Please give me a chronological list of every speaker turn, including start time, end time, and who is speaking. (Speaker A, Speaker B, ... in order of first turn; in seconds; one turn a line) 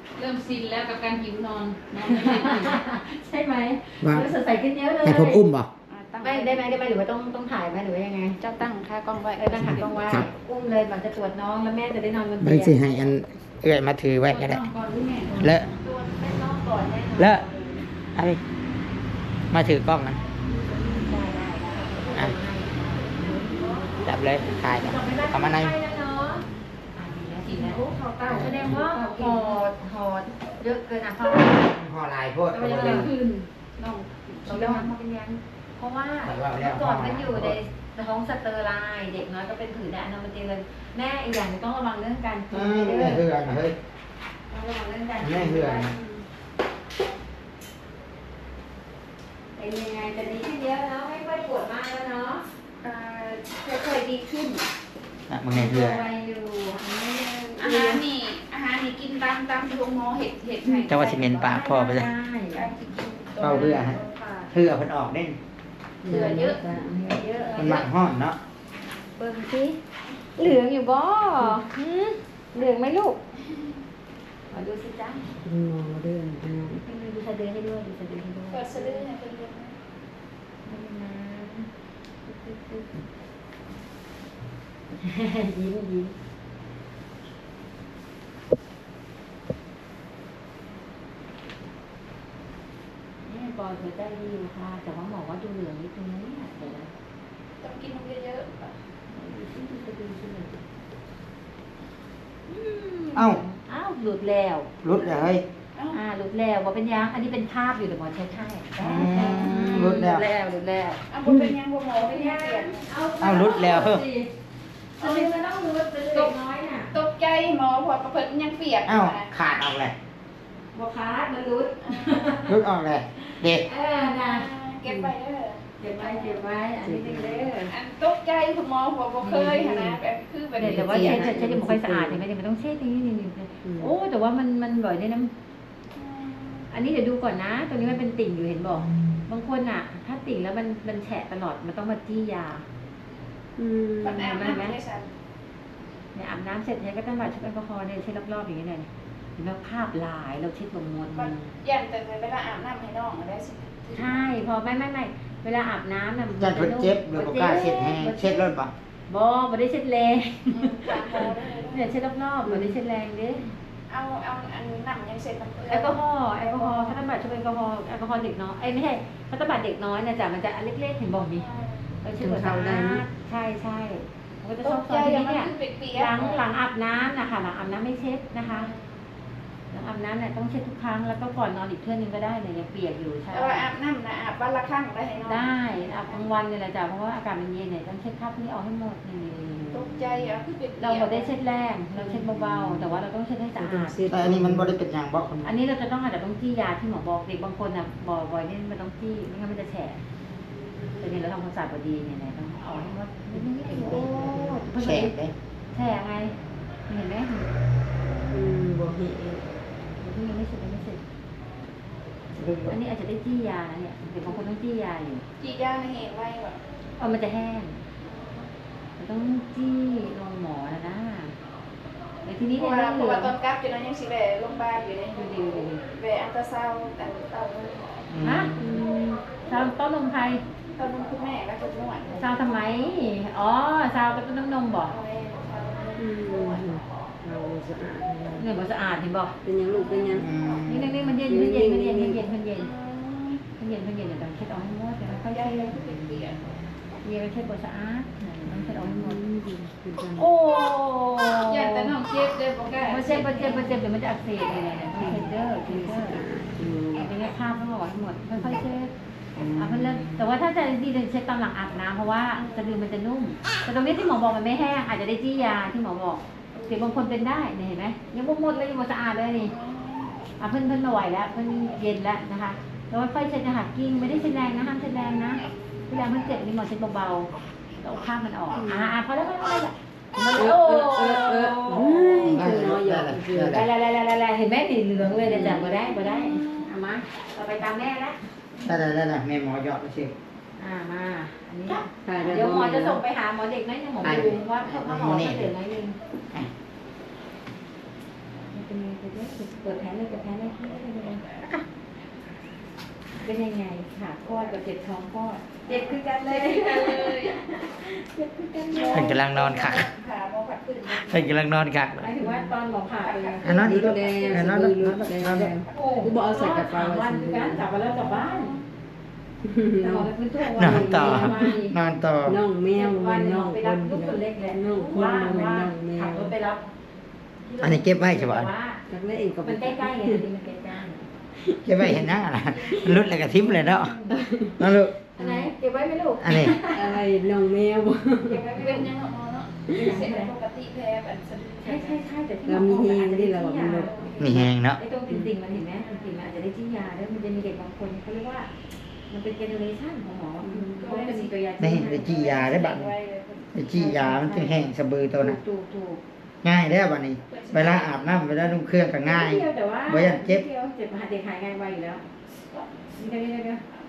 Speaker A: 0.2-2.8
Speaker B: 2.0-5.4
Speaker C: 4.0-4.3
Speaker C: 5.0-5.7
Speaker A: 5.9-6.7
Speaker B: 6.2-8.4
Speaker A: 8.4-9.9
Speaker B: 9.4-12.9
Speaker C: 9.6-10.3
Speaker C: 12.4-14.6
Speaker A: 14.3-15.4
Speaker C: 15.4-15.7
Speaker B: 15.4-17.8
Speaker C: 18.1-18.4
Speaker C: 19.5-20.2
Speaker B: 20.5-23.9
Speaker C: 24.1-25.8
Speaker B: 24.7-31.8
Speaker A: 27.7-29.6
Speaker C: 28.2-28.8
Speaker C: 31.6-33.1
Speaker B: 32.5-33.1
Speaker A: 33.0-34.9
Speaker B: 34.5-43.2
Speaker C: 36.2-37.6
Speaker C: 42.5-43.8
Speaker B: 44.5-46.2
Speaker C: 45.2-45.9
Speaker B: 49.6-52.5
Speaker A: 52.8-54.7
Speaker C: 55.3-56.0
Speaker B: 55.5-58.0
Speaker A: 57.6-61.7
Speaker C: 60.9-62.1
Speaker B: 61.4-62.7
Speaker A: 62.5-64.2
Speaker C: 63.4-64.0
Speaker B: 63.5-64.5
Speaker C: 64.5-65.4
Speaker D: 66.0-67.0
Speaker B: 66.0-67.8
Speaker A: 66.1-66.6
Speaker A: 67.5-67.8
Speaker C: 67.6-68.4
Speaker B: 69.2-69.8
Speaker B: 70.4-73.2
Speaker B: 74.5-75.3
Speaker D: 75.4-76.8
Speaker B: 76.8-79.1
Speaker A: 78.5-79.8
Speaker B: 80.7-81.7
Speaker B: 82.3-83.0
Speaker B: 85.0-86.1
Speaker B: 93.3-96.9
Speaker A: 97.6-98.8
Speaker B: 99.1-100.6
Speaker B: 102.5-104.7
Speaker C: 103.2-103.4
Speaker C: 104.8-105.4
Speaker B: 105.9-111.0
Speaker C: 108.8-110.2
Speaker A: 111.1-112.9
Speaker B: 112.0-114.3
Speaker C: 113.2-114.0
Speaker A: 115.0-115.4
Speaker B: 115.0-116.9
Speaker A: 116.9-119.3
Speaker C: 118.9-120.0
Speaker B: 120.7-122.6
Speaker A: 121.8-122.4
Speaker C: 122.5-123.7
Speaker B: 123.2-124.5
Speaker A: 124.2-126.4
Speaker B: 125.8-127.7
Speaker D: 126.8-127.5
Speaker A: 127.7-131.5
Speaker B: 129.2-130.0
Speaker B: 130.6-135.3
Speaker D: 130.6-132.2
Speaker D: 133.7-133.9
Speaker A: 135.9-136.7
Speaker B: 136.7-142.7
Speaker D: 143.6-144.3
Speaker A: 144.0-145.1
Speaker B: 144.2-144.8
Speaker B: 146.1-151.3
Speaker A: 151.1-154.4
Speaker B: 153.9-158.4
Speaker C: 156.4-158.7
Speaker B: 159.1-163.5
Speaker A: 160.5-161.9
Speaker D: 162.4-162.8
Speaker A: 163.9-167.0
Speaker B: 165.7-171.4
Speaker A: 171.3-171.9
Speaker B: 172.0-178.7
Speaker D: 172.2-173.0
Speaker A: 174.6-176.4
Speaker A: 178.4-179.0
Speaker B: 179.7-183.7
Speaker A: 183.3-186.3
Speaker B: 185.3-190.0
Speaker A: 189.7-191.3
Speaker B: 190.8-194.0
Speaker D: 191.9-193.0
Speaker D: 193.6-194.8
Speaker C: 194.1-195.5
Speaker B: 195.4-200.0
Speaker B: 201.0-205.1
Speaker D: 203.3-204.6
Speaker C: 203.8-204.2
Speaker C: 204.8-205.3
Speaker B: 205.7-206.4
Speaker B: 206.9-207.5
Speaker D: 208.3-209.4
Speaker B: 210.0-211.0
Speaker C: 212.3-212.8
Speaker B: 212.7-215.2
Speaker A: 215.4-216.6
Speaker B: 217.0-217.8
Speaker B: 219.0-221.3
Speaker B: 222.2-223.3
Speaker A: 222.6-228.0
Speaker B: 225.2-225.8
Speaker C: 228.1-228.7
Speaker B: 228.2-228.8
Speaker D: 228.6-229.2
Speaker B: 229.4-230.4
Speaker A: 230.8-232.5
Speaker B: 232.1-234.9
Speaker A: 234.9-236.6
Speaker D: 236.0-238.4
Speaker B: 238.4-239.4
Speaker D: 239.4-240.3
Speaker A: 239.7-240.8
Speaker C: 240.1-240.9
Speaker B: 240.7-242.7
Speaker D: 241.2-242.2
Speaker A: 242.6-243.4
Speaker B: 243.6-245.8
Speaker A: 245.2-246.5
Speaker B: 247.0-249.2
Speaker D: 248.5-250.3
Speaker B: 250.2-252.0
Speaker A: 251.4-253.7
Speaker B: 252.8-256.2
Speaker D: 254.9-257.1
Speaker B: 257.0-258.9
Speaker D: 259.4-260.2
Speaker B: 259.5-269.5
Speaker A: 262.4-262.8
Speaker A: 269.5-270.1
Speaker B: 270.4-282.5
Speaker D: 278.5-278.9
Speaker D: 280.4-283.6
Speaker C: 282.2-283.7
Speaker B: 283.4-288.2
Speaker D: 285.2-285.7
Speaker A: 286.0-286.6
Speaker C: 288.6-290.1
Speaker B: 290.6-296.0
Speaker D: 292.0-293.0
Speaker C: 294.0-295.5
Speaker B: 298.5-301.6
Speaker B: 303.2-309.2
Speaker A: 306.2-307.4
Speaker A: 308.7-311.3
Speaker C: 308.9-309.9
Speaker C: 311.0-312.1
Speaker B: 312.0-313.4
Speaker A: 313.0-314.5
Speaker C: 313.4-315.5
Speaker D: 313.5-317.7
Speaker A: 315.7-316.1
Speaker B: 315.7-318.6
Speaker A: 318.0-318.6
Speaker D: 319.4-321.5
Speaker B: 319.8-321.8
Speaker C: 320.6-322.4
Speaker D: 322.2-326.3
Speaker B: 322.7-326.6
Speaker B: 327.4-328.8
Speaker C: 327.6-328.5
Speaker D: 328.9-330.2
Speaker B: 329.4-331.1
Speaker D: 331.4-332.1
Speaker C: 331.6-333.9
Speaker A: 332.4-333.4
Speaker B: 333.7-334.2
Speaker D: 334.1-335.5
Speaker C: 334.6-334.9
Speaker B: 335.2-337.0
Speaker C: 336.2-336.6
Speaker D: 336.6-338.5
Speaker B: 338.3-338.9
Speaker A: 338.6-342.1
Speaker B: 339.7-340.3
Speaker B: 341.6-348.5
Speaker D: 342.5-344.5
Speaker A: 343.6-344.4
Speaker C: 344.2-344.8
Speaker B: 349.1-352.2
Speaker D: 350.4-350.8
Speaker A: 350.8-353.6
Speaker C: 351.6-352.9
Speaker C: 353.5-355.4
Speaker B: 353.7-356.0
Speaker C: 356.4-360.4
Speaker A: 357.3-358.6
Speaker B: 359.0-362.0
Speaker B: 362.9-363.6